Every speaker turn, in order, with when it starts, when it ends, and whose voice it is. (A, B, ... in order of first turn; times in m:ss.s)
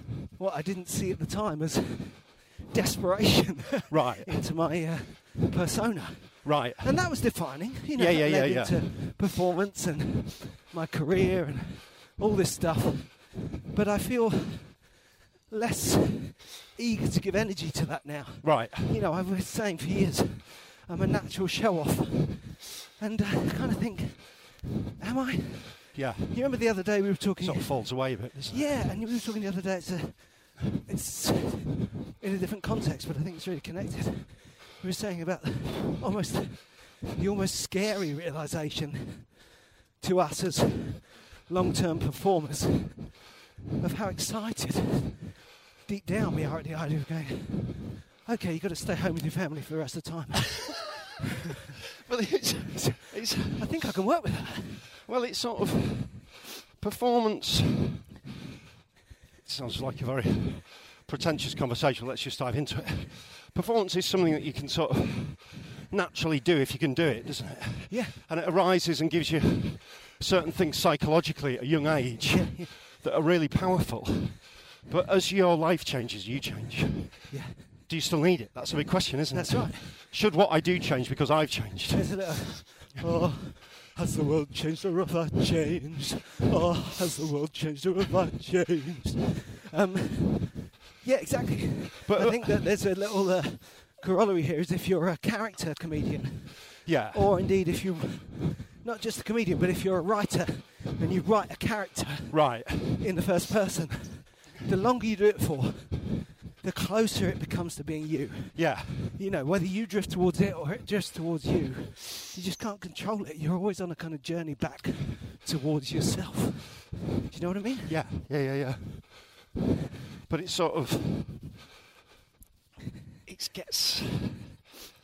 0:00.4-0:15.0 A
0:03.9-0:04.4 B
0:06.4-0:08.8 B
0:15.5-0:39.4 A
0:18.4-0:19.0 B
0:25.9-0:29.0 B
0:40.0-0:43.2 A
0:43.8-0:50.8 A
0:52.0-0:53.6 B
0:52.7-0:54.9 A
0:55.0-0:58.0 B
0:59.4-1:22.4 B
1:07.9-1:08.2 A
1:12.2-1:12.7 A
1:17.3-1:17.7 A
1:19.3-1:20.0 A
1:21.9-1:58.0 A
1:32.0-1:32.6 B
1:36.8-1:37.3 B
1:42.3-1:43.0 B
1:48.5-1:49.2 B
1:57.9-1:59.4 B
2:00.3-2:01.4 B
2:03.2-2:04.5 B